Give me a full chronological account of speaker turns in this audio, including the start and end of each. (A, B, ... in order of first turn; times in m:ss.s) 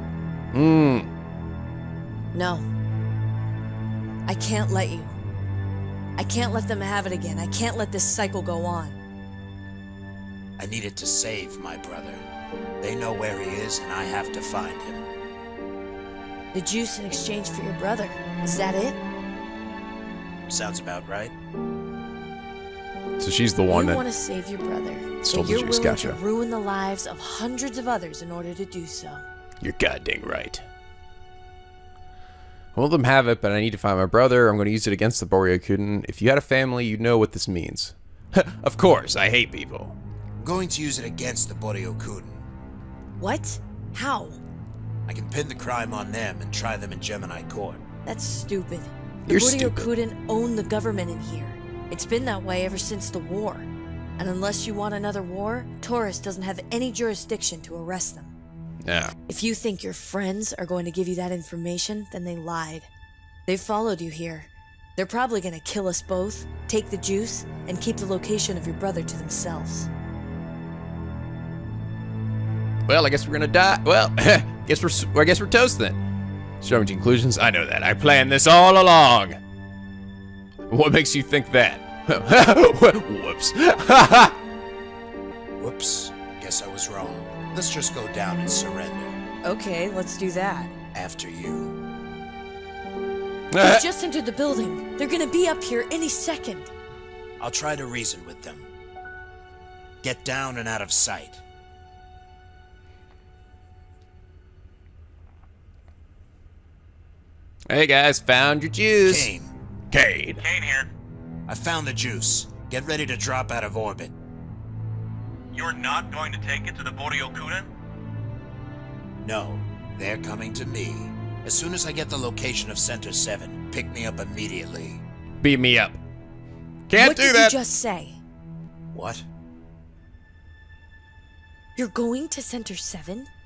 0:00.5-0:01.1 A
0:02.3-0:02.7 B
0:04.3-0:05.1 B
0:06.2-0:09.0 B
0:10.6-0:12.2 C
0:12.8-0:15.1 C
0:16.5-0:19.0 B
0:20.5-0:21.3 C
0:23.2-0:24.0 A
0:23.7-0:29.2 B
0:25.2-0:26.2 A
0:29.6-0:30.6 A
0:32.7-0:40.0 A
0:40.4-0:42.4 C
0:43.2-0:44.4 B
0:45.1-0:47.8 C
0:48.0-0:58.3 B
0:49.3-0:49.9 A
0:58.8-0:59.1 A
0:59.3-1:02.9 B
1:03.5-1:09.9 B
1:12.9-1:16.0 A
1:16.6-1:19.4 A
1:20.7-1:24.4 A
1:25.6-1:29.2 C
1:29.4-1:30.7 B
1:30.9-1:31.7 C
1:33.5-1:33.8 A
1:33.6-1:36.7 B
1:37.4-1:38.7 C
1:40.0-1:41.4 C
1:47.7-1:49.3 A
1:49.0-1:49.5 C
1:49.9-1:50.4 A
1:50.4-1:50.9 D
1:51.5-1:54.1 C
1:55.5-1:57.7 D
1:59.2-2:05.0 C
2:05.4-2:06.0 A
2:06.9-2:07.6 A
2:07.0-2:08.2 B
2:08.9-2:09.2 C
2:11.8-2:13.3 B